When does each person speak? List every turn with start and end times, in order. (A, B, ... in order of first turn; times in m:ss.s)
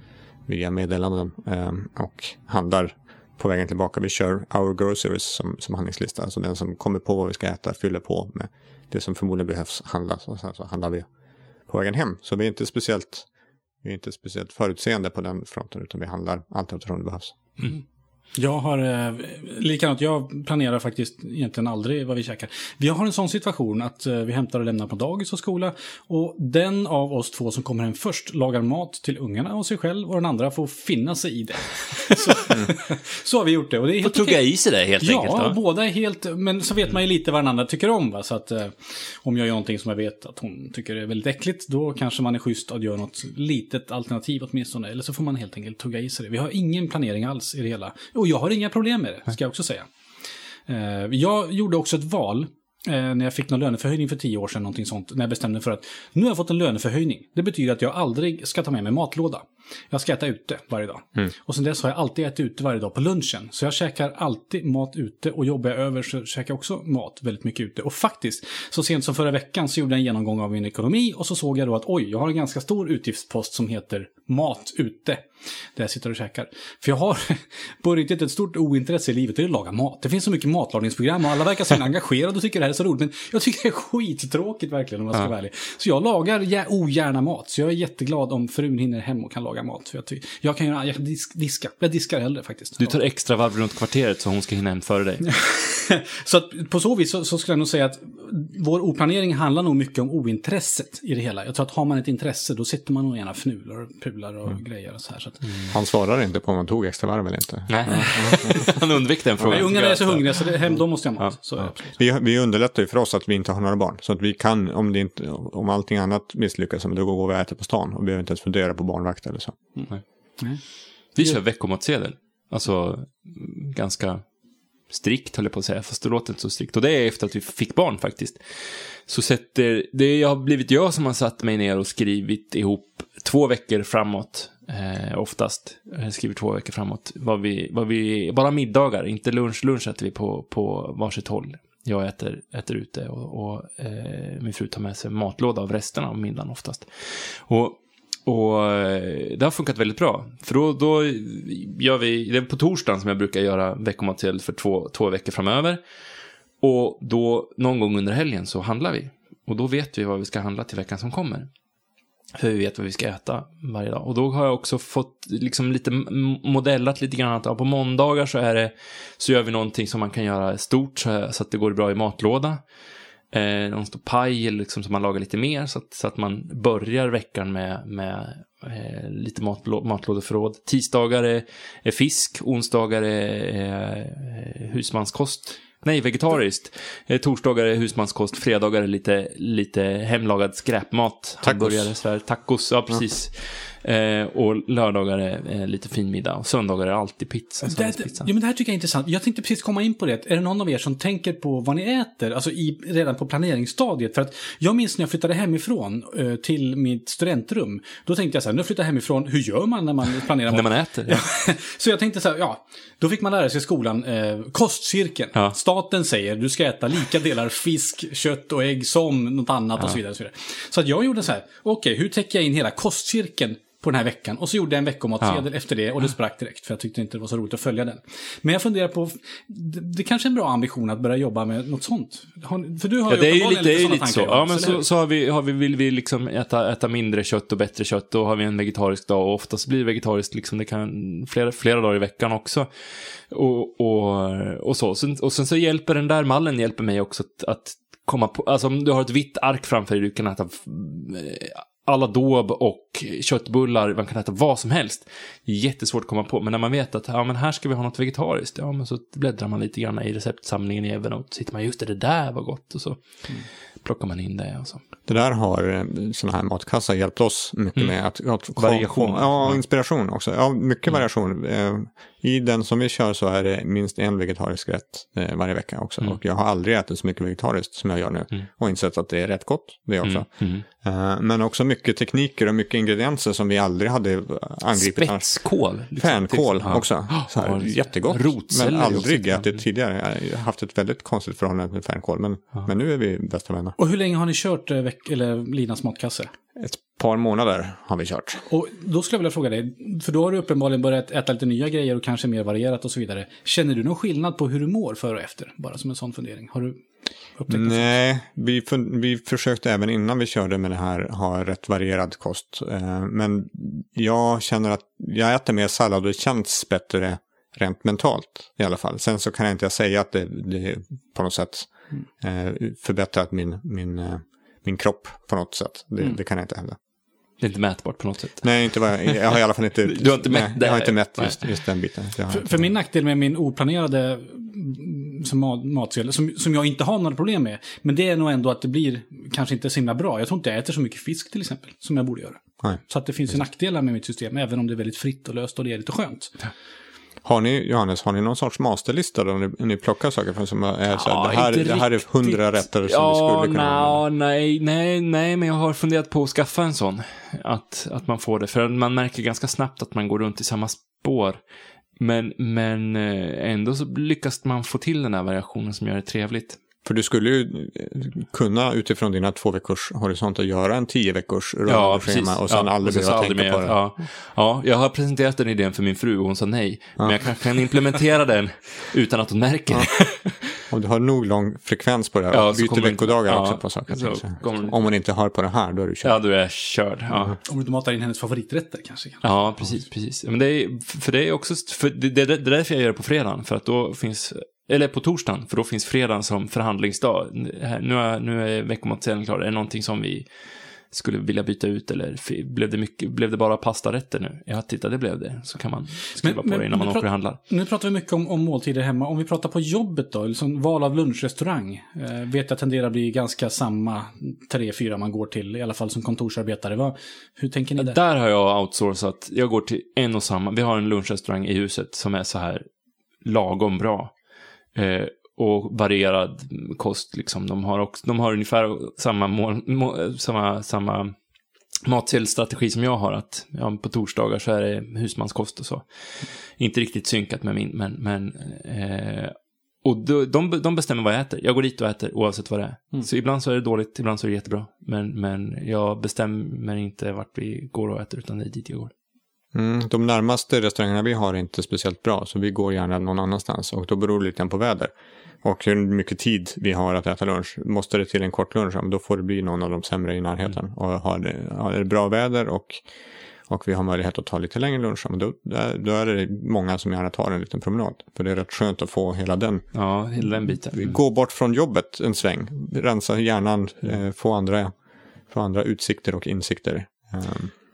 0:00.5-0:11.1 A
0:11.7-0:13.3 A
0:13.8-0:17.6 A
0:18.4-0:49.9 B
0:34.0-0:35.6 C
0:50.7-1:33.0 B
1:32.8-1:35.3 C
1:35.3-1:45.6 B
1:45.7-1:48.7 A
1:47.7-1:50.6 C
1:49.5-1:52.0 B
1:52.0-1:59.6 A
2:01.2-2:04.2 C
2:04.9-2:35.8 C
2:36.6-2:41.5 C
2:42.4-2:52.6 C
2:53.3-3:18.3 C
3:11.4-3:11.9 A
3:17.6-3:54.8 B
3:30.5-3:31.2 C
3:53.1-4:02.7 C
4:03.3-4:24.8 C
4:25.1-4:53.8 A
4:27.8-4:29.7 C
4:40.0-4:40.6 C
4:44.8-4:49.6 C
4:53.8-4:56.3 B
4:56.6-4:58.4 A
4:58.5-5:06.8 B
5:07.4-5:07.9 B
5:07.5-5:26.8 A
5:27.4-5:29.3 C
5:28.4-5:32.7 A
5:29.9-5:31.6 C
5:32.3-5:46.5 B
5:47.2-5:54.0 A
5:50.9-6:01.4 C
6:02.0-6:06.6 C
6:06.8-6:13.8 A
6:11.7-6:20.5 C
6:20.7-6:26.2 A
6:22.3-6:24.8 C
6:26.0-6:27.4 C
6:27.4-6:29.7 B
6:29.2-6:40.3 C
6:40.9-6:47.4 C
6:46.2-6:58.0 B
6:57.8-7:02.7 C
7:03.2-7:04.2 C
7:04.8-7:11.1 C
7:11.9-7:28.9 C
7:29.5-7:34.9 A
7:35.4-7:42.8 A
7:43.5-7:49.8 A
7:49.7-7:51.0 C
7:50.6-7:54.7 A
7:55.3-7:57.5 A